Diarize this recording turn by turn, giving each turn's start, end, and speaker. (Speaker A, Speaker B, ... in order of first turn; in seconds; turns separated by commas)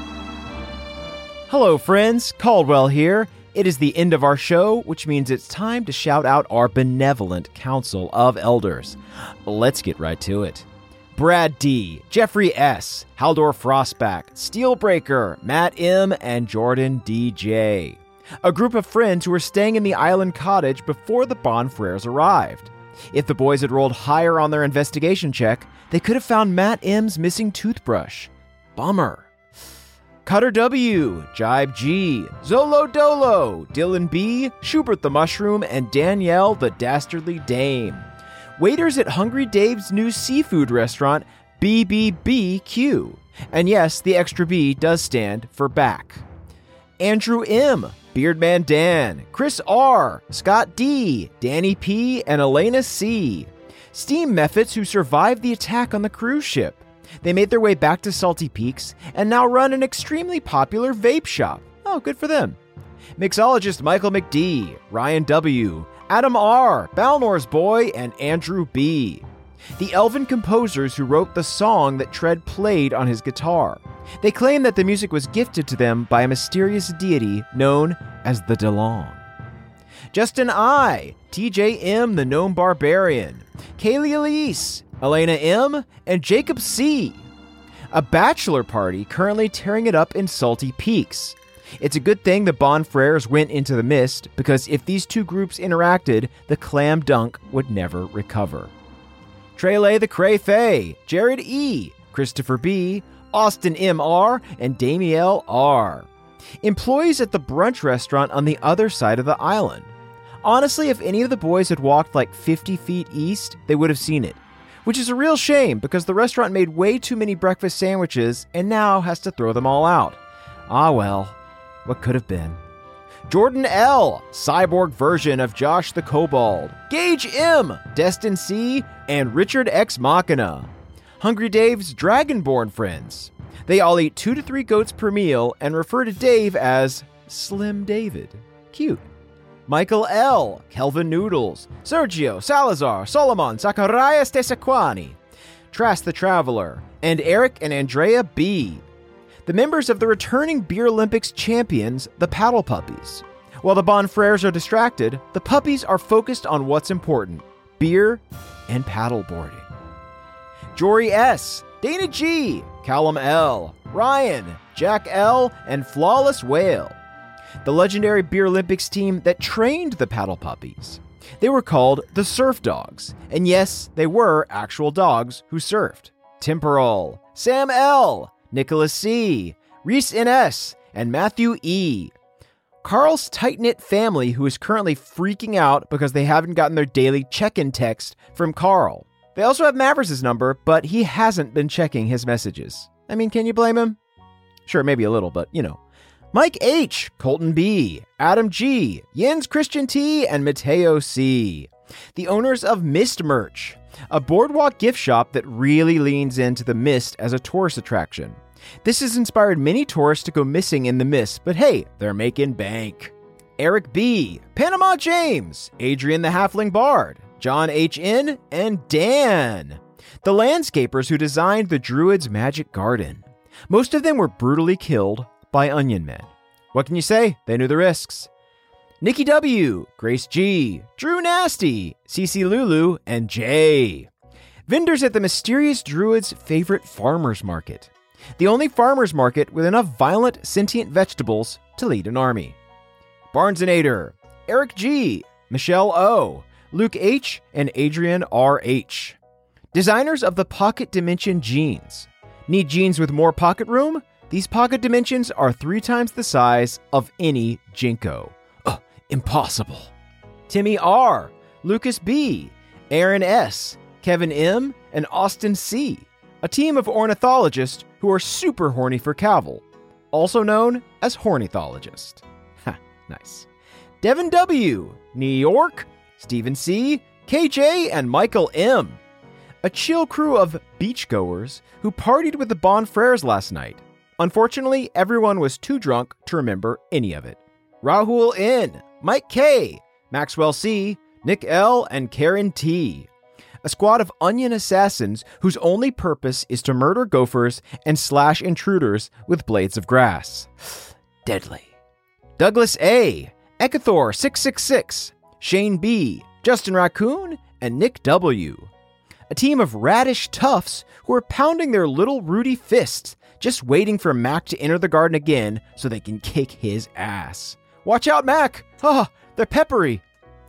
Speaker A: 1.5-29.3, Speaker A: 30.2-38.0, Speaker A: 38.6-46.2, Speaker A: 47.0-62.6, Speaker A: 63.2-69.2, Speaker A: 69.8-79.2, Speaker A: 80.1-87.2, Speaker A: 87.9-98.7, Speaker A: 99.6-106.1, Speaker A: 106.6-109.9, Speaker A: 110.4-122.6, Speaker A: 123.3-139.0, Speaker A: 139.7-145.2, Speaker A: 145.7-148.8, Speaker A: 149.5-159.7, Speaker A: 160.8-167.0, Speaker A: 167.6-182.1, Speaker A: 182.8-194.0, Speaker A: 194.7-195.8, Speaker A: 196.3-228.3, Speaker A: 229.0-234.1, Speaker A: 234.7-242.6, Speaker A: 243.3-249.2, Speaker A: 249.7-259.9, Speaker A: 260.5-273.5, Speaker A: 274.0-279.0, Speaker A: 279.6-293.1, Speaker A: 293.6-301.7, Speaker A: 302.4-308.7, Speaker A: 309.3-320.0